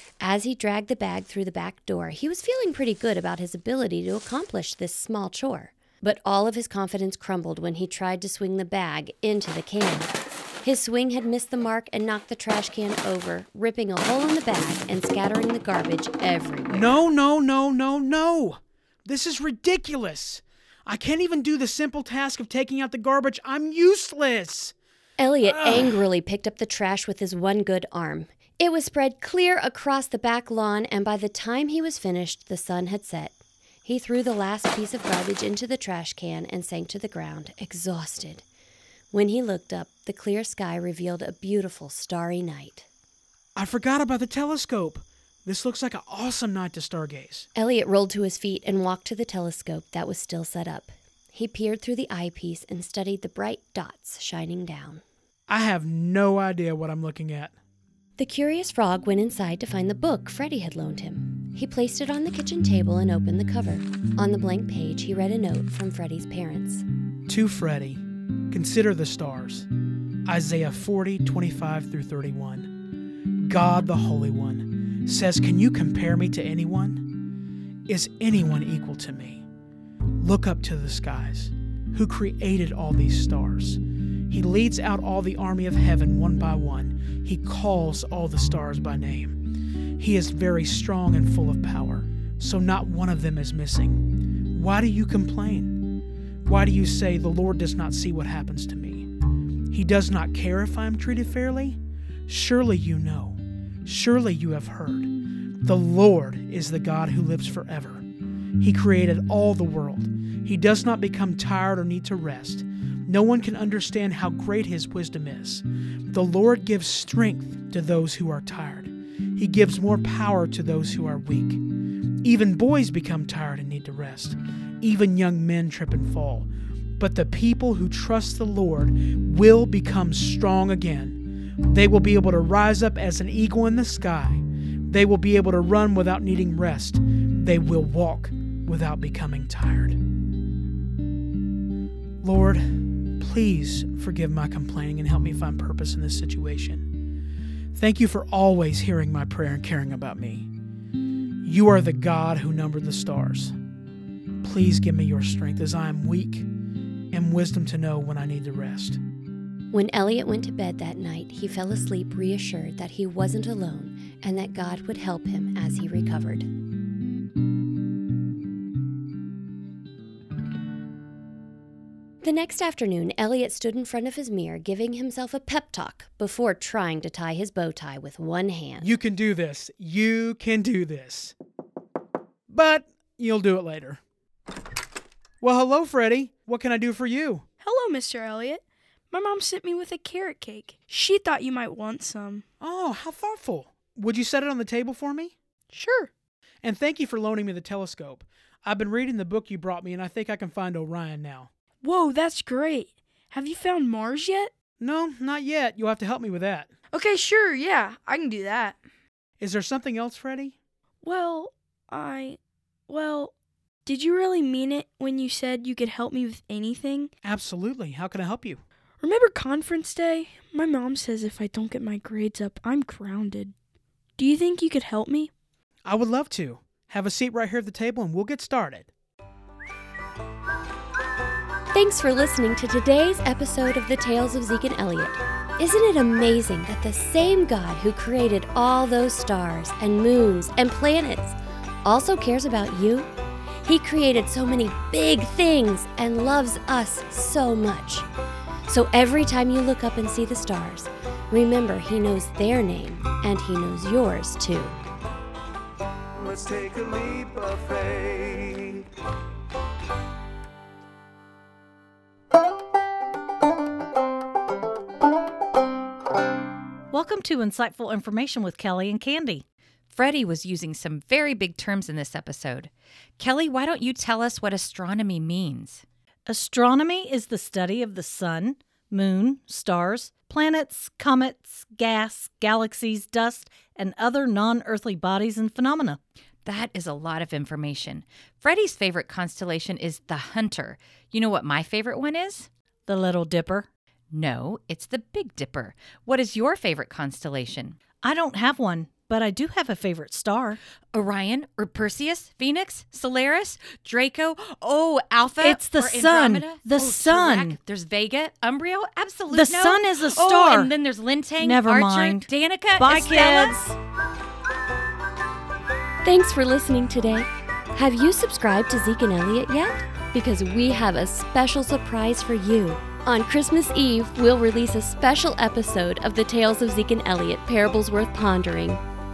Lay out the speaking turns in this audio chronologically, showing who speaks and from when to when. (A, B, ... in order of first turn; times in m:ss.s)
0:00.2-0:10.1 A
0:10.6-0:17.0 A
0:16.7-0:24.7 B
0:25.2-0:38.4 A
0:25.4-0:26.0 B
0:39.1-0:42.9 A
0:43.6-0:47.5 B
0:47.6-0:55.0 A
0:55.5-0:57.6 B
0:58.2-1:06.8 A
1:07.3-1:09.7 B
1:10.3-1:12.8 B
1:13.4-1:17.2 B
1:17.9-1:19.5 B
1:20.2-1:29.4 B
1:30.0-1:35.9 B
1:36.4-1:39.1 B
1:39.7-1:45.1 B
1:45.6-1:48.0 B
1:48.6-2:01.6 B
2:02.2-2:20.0 B
2:22.2-2:26.9 B
2:27.7-2:30.5 B
2:31.4-2:33.6 B
2:34.4-2:36.5 B
2:37.1-2:39.0 B
2:39.7-2:46.5 A
2:52.2-2:58.9 A
2:58.8-3:01.4 B
3:02.5-3:04.0 B
3:05.4-3:07.4 B
3:07.6-3:12.4 C
3:12.6-3:15.3 B
3:15.7-3:16.1 C
3:16.6-3:21.5 B
3:21.8-3:24.5 C
3:24.8-3:26.7 B
3:26.9-3:28.8 C
3:29.4-3:30.6 B
3:31.0-3:32.4 C
3:32.9-3:33.3 C
3:33.9-3:37.1 C
3:37.2-3:38.6 B
3:39.0-3:43.5 C
3:44.2-3:45.3 C
3:45.8-3:48.9 B
3:51.7-4:03.1 A
4:03.6-4:08.1 A
4:08.7-4:14.8 A
4:16.2-4:18.8 D
4:26.9-4:29.4 E
4:29.9-4:35.8 F
4:36.3-4:46.0 E
4:46.4-4:52.5 F
4:52.9-4:53.7 E
4:54.1-4:57.8 F
4:58.0-5:00.6 E
5:00.9-5:13.7 F
5:05.4-5:07.6 E
5:09.3-5:10.7 E
5:11.4-5:13.8 E
5:16.0-5:28.8 A